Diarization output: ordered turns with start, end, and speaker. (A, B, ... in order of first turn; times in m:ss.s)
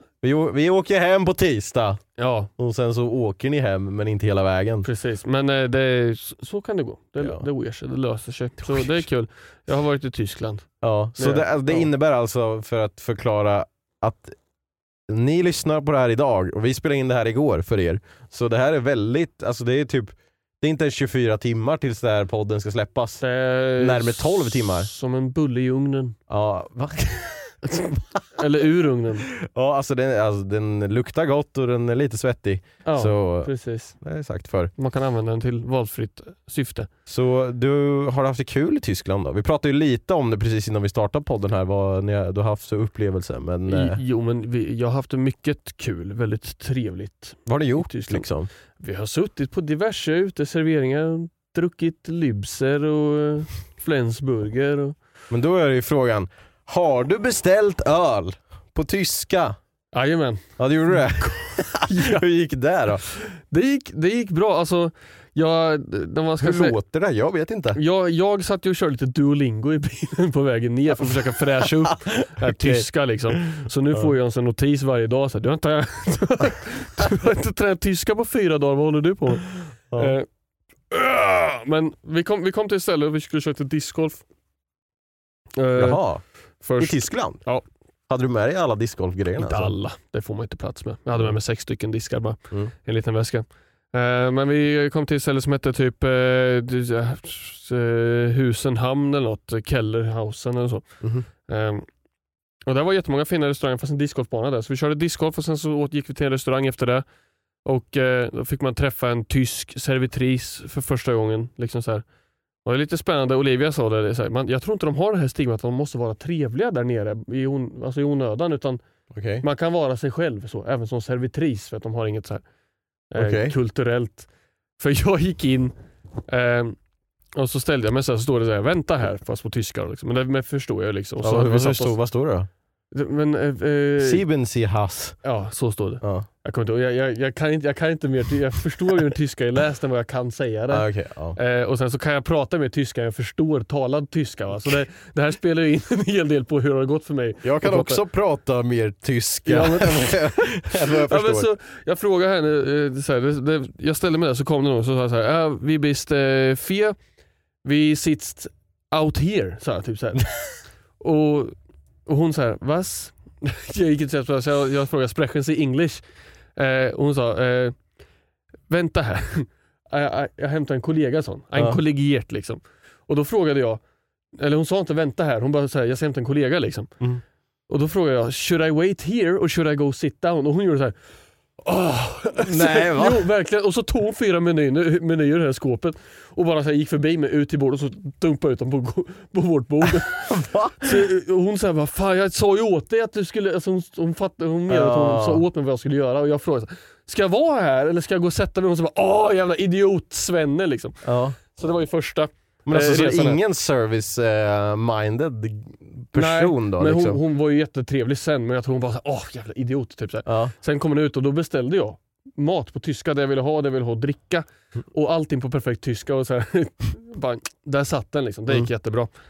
0:00.2-0:02.0 A
0:02.2-0:02.5 B
0:02.6-0:04.9 A
0:04.8-0:11.9 B
0:07.2-0:07.4 A
0:08.6-0:09.0 A
0:10.8-0:14.4 A
0:15.1-0:23.2 A
0:23.2-0:26.2 B
0:23.8-0:24.9 A
0:26.3-0:28.2 A
0:27.7-0:29.3 B
0:29.3-0:34.7 A
0:32.8-0:33.9 B
0:34.8-0:36.9 B
0:37.1-0:44.0 A
0:43.7-0:48.3 B
0:47.4-0:48.5 A
0:48.8-0:55.0 B
0:55.3-0:59.6 A
0:59.9-1:02.2 B
1:00.6-1:03.0 A
1:03.1-1:06.7 B
1:06.4-1:07.8 A
1:07.7-1:20.3 B
1:11.0-1:14.1 A
1:20.9-1:24.2 B
1:25.6-1:26.0 B
1:25.8-1:26.2 A
1:26.6-1:27.6 B
1:26.8-1:27.4 A
1:28.1-1:29.7 A
1:29.4-1:41.8 B
1:41.0-1:41.3 A
1:42.6-1:47.0 B
1:47.6-1:52.0 B
1:52.6-1:58.8 B
1:59.1-1:59.4 A
1:59.4-2:02.4 B
2:03.1-2:04.3 B
2:03.2-2:03.5 A
2:04.8-2:05.7 B
2:06.3-2:06.8 B
2:07.4-2:12.0 B
2:11.2-2:12.5 A
2:12.9-2:14.2 B
2:14.0-2:15.2 A
2:15.2-2:28.0 B
2:16.0-2:16.3 A
2:20.7-2:21.4 A
2:27.4-2:31.5 A
2:29.4-2:37.0 B
2:37.6-2:41.5 B
2:42.0-2:46.0 B
2:46.6-2:47.8 B
2:48.7-2:53.8 B
2:51.6-2:51.8 A
2:54.4-2:56.9 B
2:57.7-3:01.0 B
3:01.6-3:10.3 B
3:02.4-3:03.3 A
3:09.8-3:11.0 A
3:10.8-3:23.4 B
3:14.7-3:15.4 A
3:21.0-3:21.4 A
3:22.6-3:27.2 A
3:26.1-3:39.1 B
3:30.2-3:30.5 A